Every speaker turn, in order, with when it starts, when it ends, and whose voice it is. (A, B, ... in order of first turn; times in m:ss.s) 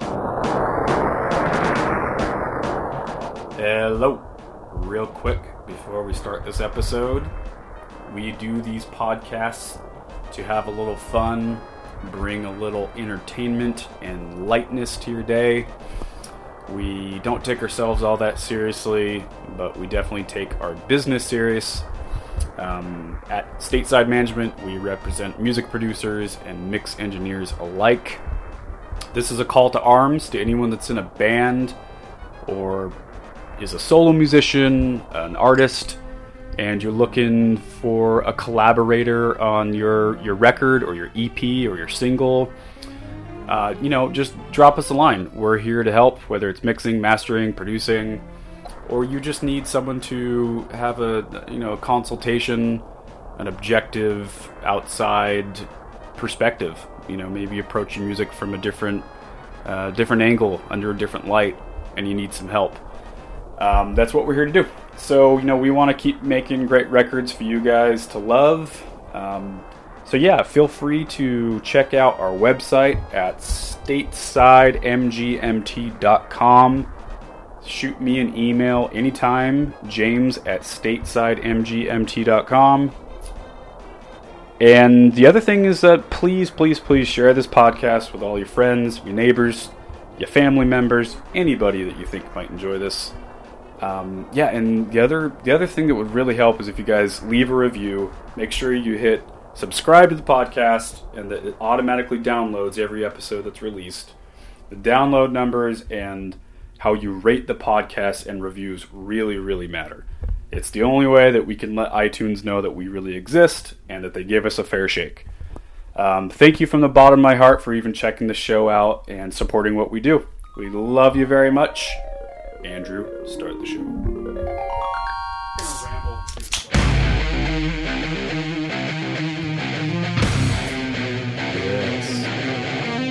0:03.6-0:07.3 A
0:08.1-0:09.8 A
0:10.3-0:15.7 A
0:16.7-0:21.8 A
0:22.6-0:28.2 A
0:29.1-0:31.8 A
0:32.4-0:33.0 A
0:33.6-0:36.0 A
0:36.6-0:42.5 A
0:43.5-0:48.2 A
0:48.8-0:52.8 A
0:53.4-0:59.1 A
0:59.6-1:02.8 A
1:03.6-1:16.9 A
1:17.6-1:22.9 A
1:24.6-1:33.1 A
1:33.8-1:44.1 A
1:44.7-1:55.2 A
1:55.9-2:02.0 A
2:02.6-2:04.0 A
2:05.6-2:07.0 A
2:11.5-2:12.3 A